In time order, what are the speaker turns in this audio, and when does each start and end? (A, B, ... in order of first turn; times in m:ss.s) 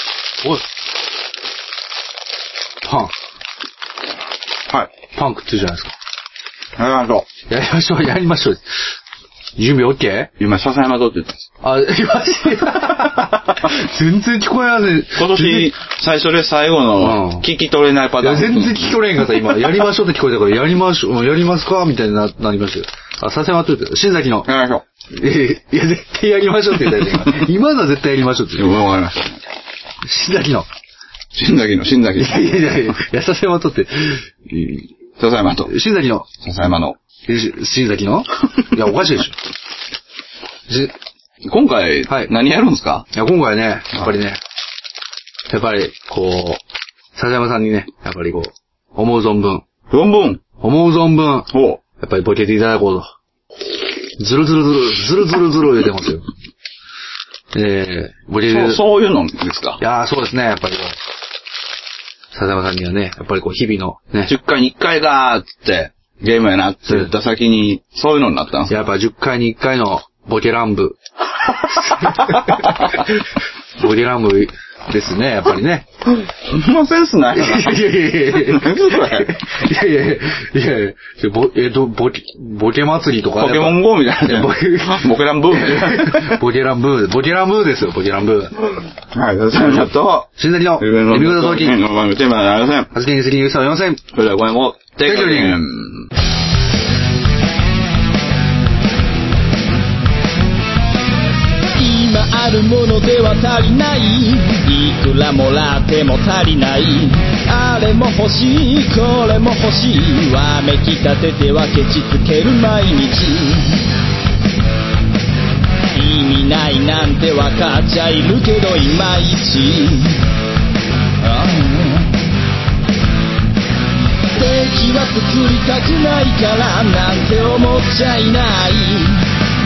0:02.8-0:03.1 A
0:05.1-0:05.9 A
0:06.8-0:07.3 B
0:07.5-0:08.6 A
0:09.6-0:10.3 A
0:10.4-0:11.5 B
0:11.6-0:15.7 A
0:15.2-0:19.0 B
0:17.0-0:17.5 A
0:18.2-0:24.5 A
0:24.4-0:24.8 B
0:25.1-0:28.7 A
0:27.1-0:27.4 B
0:28.6-0:29.4 B
0:30.0-0:30.7 A
0:31.3-0:33.0 B
0:32.2-0:34.9 A
0:35.2-0:35.8 B
0:35.7-0:36.3 A
0:36.4-0:37.0 B
0:37.3-0:39.4 A
0:40.7-0:40.9 A
0:41.5-0:43.1 B
0:42.1-0:42.3 A
0:43.1-0:44.4 A
0:45.5-0:46.6 A
0:47.2-0:49.6 A
0:49.9-0:50.4 B
0:50.6-0:53.1 A
0:51.5-0:51.8 B
0:54.2-0:56.2 A
0:57.5-0:58.8 A
0:58.4-0:59.8 B
0:59.8-1:01.0 A
1:02.3-1:04.3 A
1:04.3-1:08.9 B
1:08.7-1:11.0 A
1:11.7-1:13.2 A
1:12.0-1:13.0 B
1:13.8-1:15.9 A
1:16.2-1:19.4 B
1:17.3-1:28.6 A
1:23.4-1:26.4 B
1:29.1-1:32.9 B
1:29.6-1:31.8 A
1:32.9-1:34.0 A
1:34.1-1:36.1 B
1:35.0-1:35.6 A
1:41.7-1:53.9 C
1:55.9-2:00.2 C
2:01.2-2:02.2 C
2:04.3-2:09.3 C